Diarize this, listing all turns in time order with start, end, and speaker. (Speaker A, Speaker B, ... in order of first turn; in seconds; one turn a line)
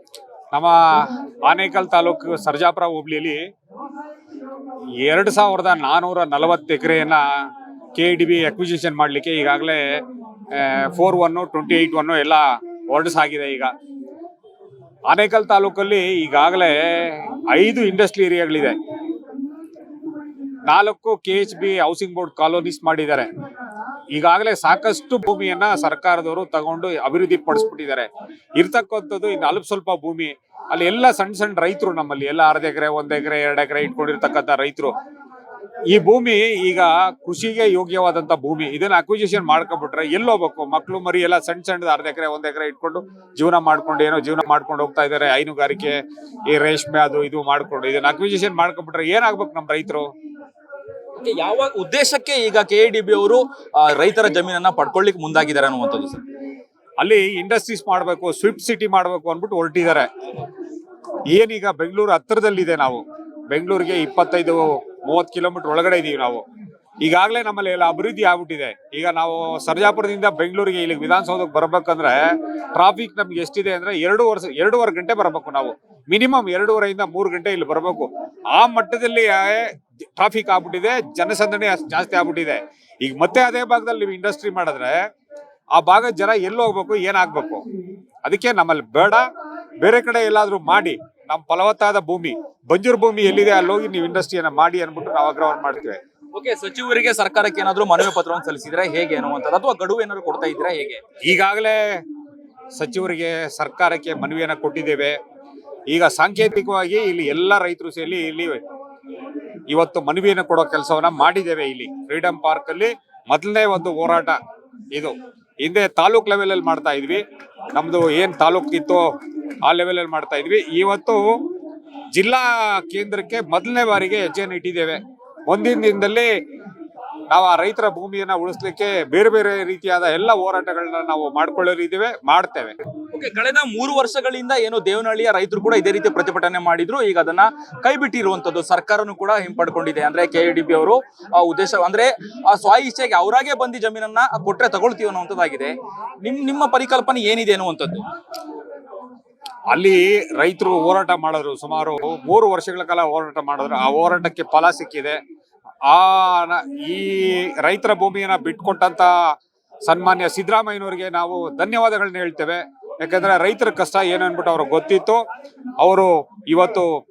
Speaker A: 0.5-3.4
Speaker A: 5.0-10.0
Speaker A: 10.5-13.7
Speaker A: 15.1-18.8
Speaker A: 20.7-23.3
Speaker A: 24.1-34.9
Speaker A: 35.9-50.1
Speaker B: 51.2-56.2
Speaker A: 57.0-60.1
Speaker A: 61.3-66.4
Speaker A: 67.0-72.2
Speaker A: 72.7-85.0
Speaker A: 85.7-87.6
Speaker A: 88.2-89.3
Speaker A: 89.8-96.0
Speaker B: 96.3-101.0
Speaker A: 101.2-102.0
Speaker A: 102.7-105.2
Speaker A: 105.9-108.6
Speaker A: 109.7-114.4
Speaker A: 114.9-117.2
Speaker A: 117.7-119.1
Speaker A: 119.6-121.2
Speaker A: 122.1-126.3
Speaker A: 127.3-132.8
Speaker B: 133.1-148.0
Speaker A: 149.7-155.2
Speaker A: 155.9-159.1
Speaker A: 159.8-165.2
Speaker A: 165.8-166.9